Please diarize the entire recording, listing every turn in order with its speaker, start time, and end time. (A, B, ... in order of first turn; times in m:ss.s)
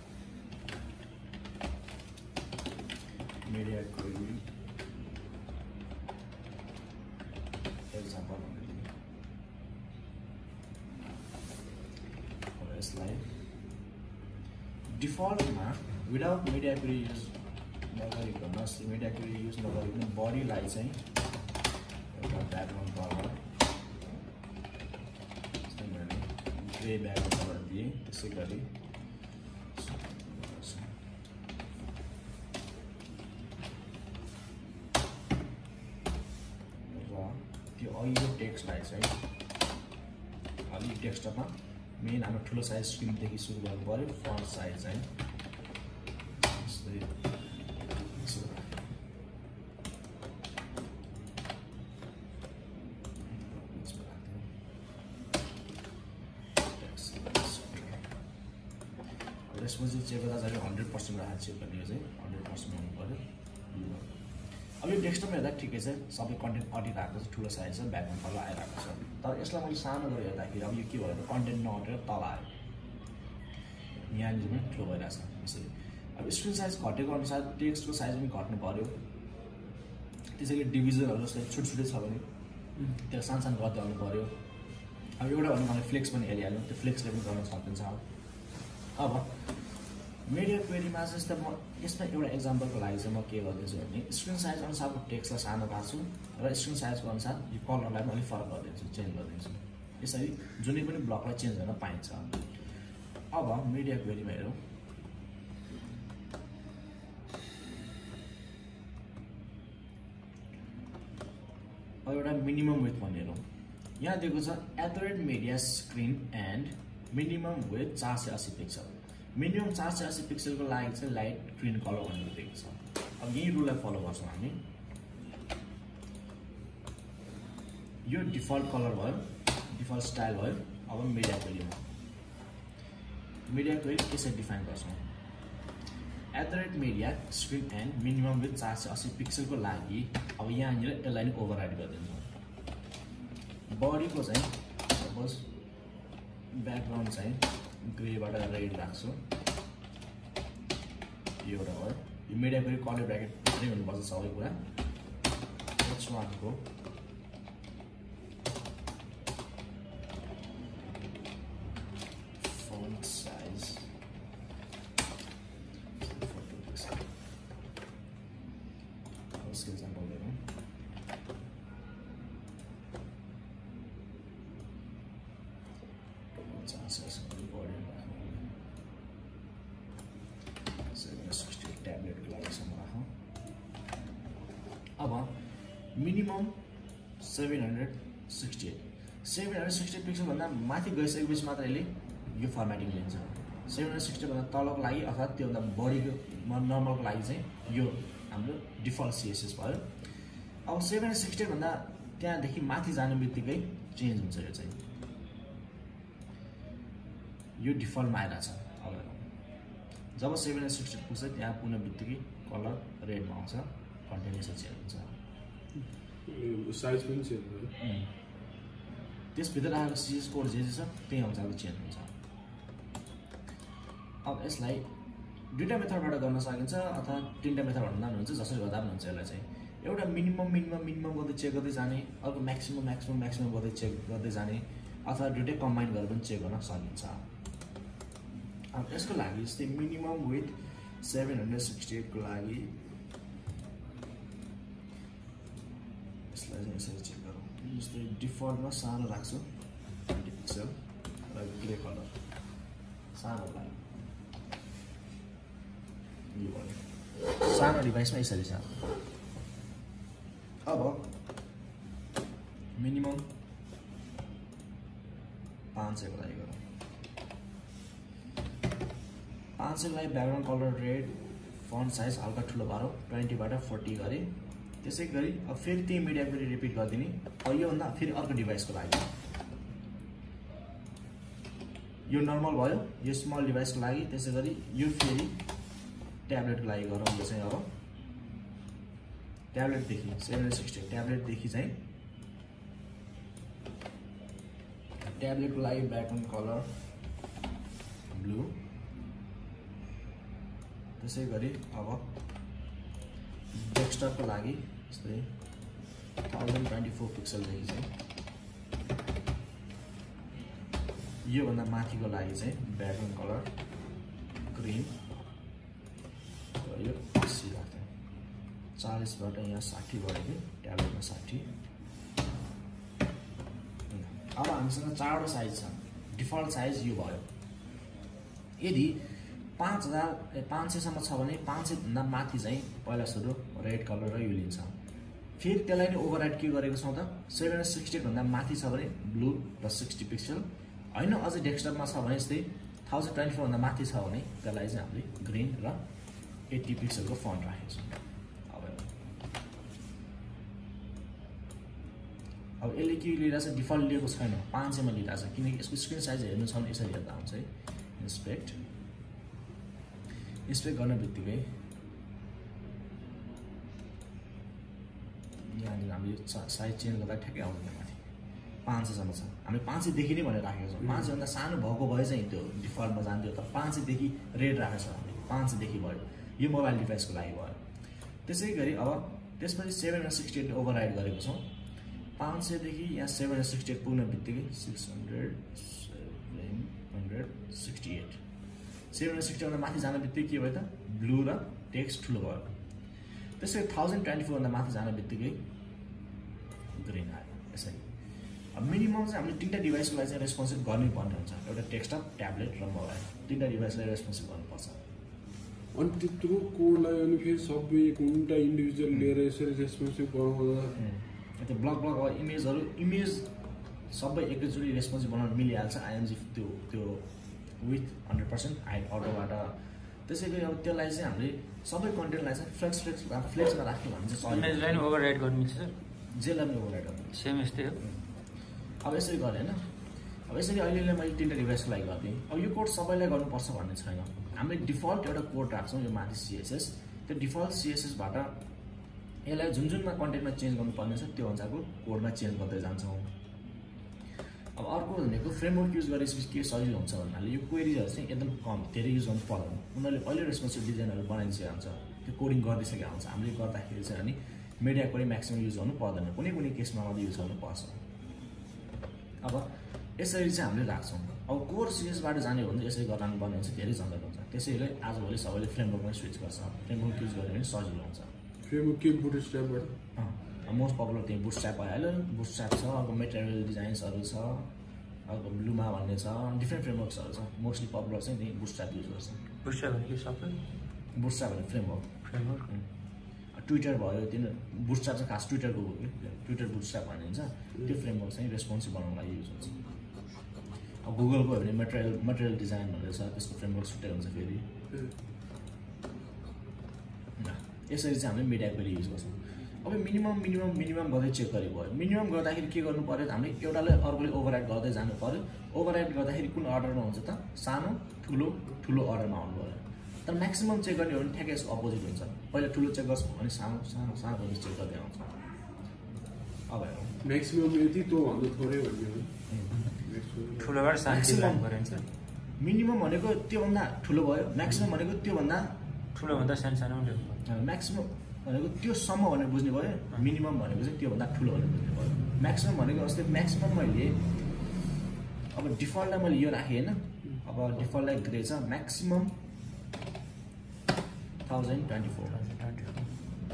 0:03.4-0:04.4 A
0:07.9-0:08.9 A
0:12.6-0:13.3 A
0:14.9-0:17.4 A
0:17.9-0:21.0 A
0:22.1-0:23.4 A
0:25.7-0:28.7 A
0:29.8-0:30.9 A
0:36.9-0:39.2 A
0:40.7-0:45.1 A
0:46.4-0:47.1 A
0:48.1-0:48.8 A
0:53.2-0:54.5 A
0:56.8-0:58.0 A
0:59.5-1:04.1 A
1:04.8-1:12.5 A
1:14.1-1:18.9 A
1:20.4-1:22.2 A
1:23.1-1:24.3 A
1:25.2-1:28.0 A
1:29.0-1:29.5 A
1:30.2-1:42.3 A
1:43.3-1:44.6 A
1:52.0-1:53.4 A
1:54.0-2:04.6 A
2:08.0-2:11.8 A
2:13.5-2:15.0 A
2:16.3-2:22.3 A
2:23.7-2:25.5 A
2:26.5-2:29.2 A
2:31.4-2:34.6 A
2:35.8-2:36.6 A
2:42.4-2:43.9 A
2:46.0-2:47.0 A
2:49.3-2:50.4 A
2:56.4-2:58.5 A
3:00.9-3:03.1 A
3:05.0-3:05.3 A
3:05.9-3:06.6 A
3:07.2-3:19.9 A
3:20.6-3:24.8 A
3:27.6-3:29.2 A
3:30.2-3:35.1 A
3:36.2-3:37.7 B
3:37.8-3:38.1 A
3:39.3-3:42.1 A
3:44.2-3:44.9 A
3:45.5-3:57.2 A
3:58.7-4:02.7 A
4:06.3-4:09.5 A
4:10.1-4:10.8 A
4:11.3-4:12.1 A
4:13.1-4:13.8 A
4:16.3-4:18.8 A
4:20.6-4:21.1 A
4:22.8-4:23.3 A
4:25.7-4:26.6 A
4:29.6-4:34.3 A
4:34.8-4:39.1 A
4:42.1-4:45.4 A
4:46.3-4:47.7 A
4:49.5-4:51.8 A
4:55.1-4:56.7 A
4:58.1-4:58.5 A
5:01.0-5:02.1 A
5:03.5-5:05.3 A
5:06.3-5:07.9 A
5:11.2-5:13.5 A
5:14.5-5:15.0 A
5:16.6-5:17.9 A
5:18.8-5:21.5 A
5:23.9-5:27.2 A
5:28.6-5:34.7 A
5:35.4-5:45.8 A
5:46.5-5:48.9 A
5:52.6-5:58.6 A
6:00.5-6:01.5 A
6:05.4-6:08.0 A
6:08.6-6:17.6 A
6:18.2-6:21.5 A
6:22.2-6:28.2 A
6:28.9-6:32.5 A
6:33.4-6:35.4 A
6:36.7-6:37.8 A
6:38.5-6:44.8 A
6:45.7-6:50.8 B
6:50.8-6:53.3 A
6:53.9-6:57.0 A
6:57.6-7:04.9 A
7:04.3-7:05.7 C
7:06.1-7:07.2 A
7:07.1-7:07.8 C
7:08.8-7:09.6 A
7:10.3-7:18.4 A
7:19.2-7:23.1 A
7:24.6-7:37.8 A
7:39.2-7:48.1 A
7:48.4-7:49.7 B
7:50.0-7:54.5 A
7:55.1-7:59.2 A
7:59.4-8:00.4 C
8:00.9-8:01.9 A
8:02.1-8:02.4 C
8:03.3-8:09.6 A
8:10.8-8:14.5 A
8:17.2-8:35.1 A
8:36.5-8:36.9 A
8:37.0-8:39.1 B
8:39.7-8:40.6 B
8:40.4-8:41.8 C
8:40.9-8:41.5 A
8:42.4-8:45.5 A
8:46.0-8:47.2 C
8:47.2-8:54.0 A
8:55.3-8:59.2 A
9:01.2-9:02.2 A
9:02.1-9:02.9 C